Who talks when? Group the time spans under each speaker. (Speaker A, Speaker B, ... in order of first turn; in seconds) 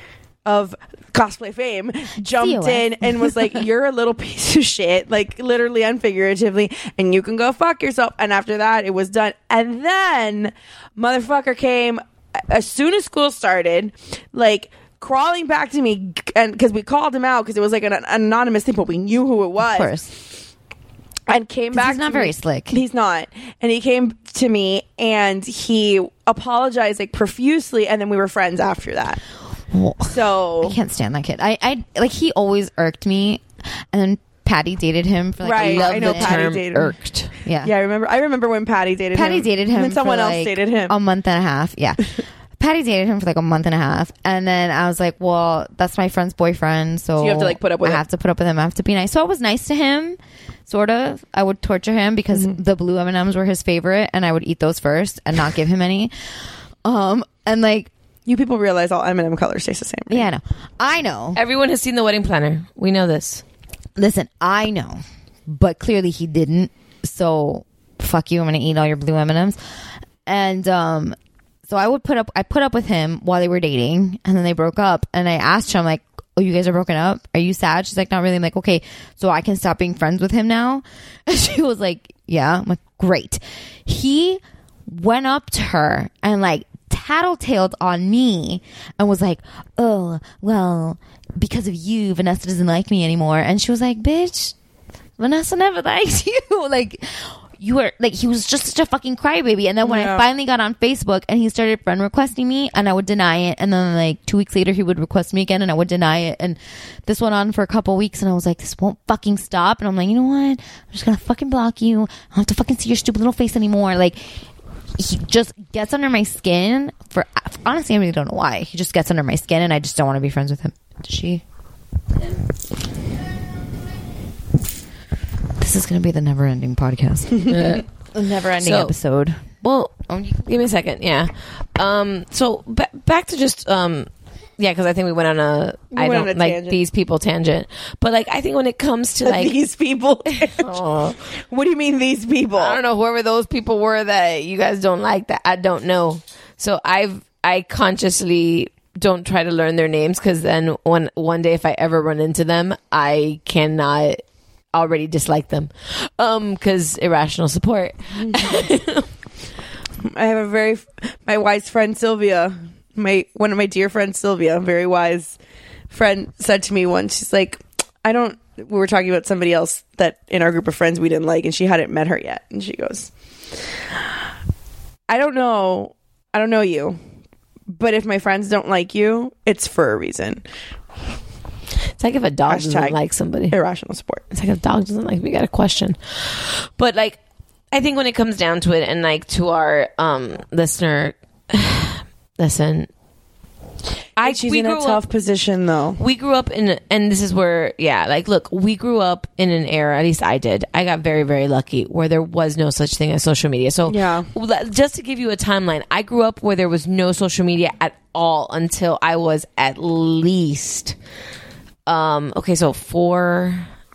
Speaker A: 0.4-19.9, 21.3-29.2, 30.1-30.8, 35.4-36.9, 37.6-40.9, 47.2-48.0, 58.2-60.3, 99.8-100.2, 135.9-136.8, 139.2-140.7, 141.5-142.8, 160.0-165.4, 165.9-173.1, 175.1-177.0, 177.7-180.4, 182.5-183.0, 183.5-184.2, 194.2-196.0, 203.9-204.3
Speaker B: 2.2-3.1, 19.6-20.1, 21.7-22.8, 29.7-36.5, 37.4-37.7, 39.1-56.1, 56.8-57.9, 60.1-61.4, 64.0-69.6, 70.2-71.2, 71.7-94.5, 95.2-114.2, 115.0-121.4, 125.6-129.5, 130.1-130.4
Speaker C: 35.6-37.3, 61.4-63.4, 127.5-127.8, 128.6-128.9, 129.6-129.9, 130.4-139.5, 140.6-141.2, 142.6-154.2, 154.7-159.1, 182.0-183.6, 184.3-187.2, 187.7-192.9, 194.2-195.0, 196.0-210.9, 211.8-213.7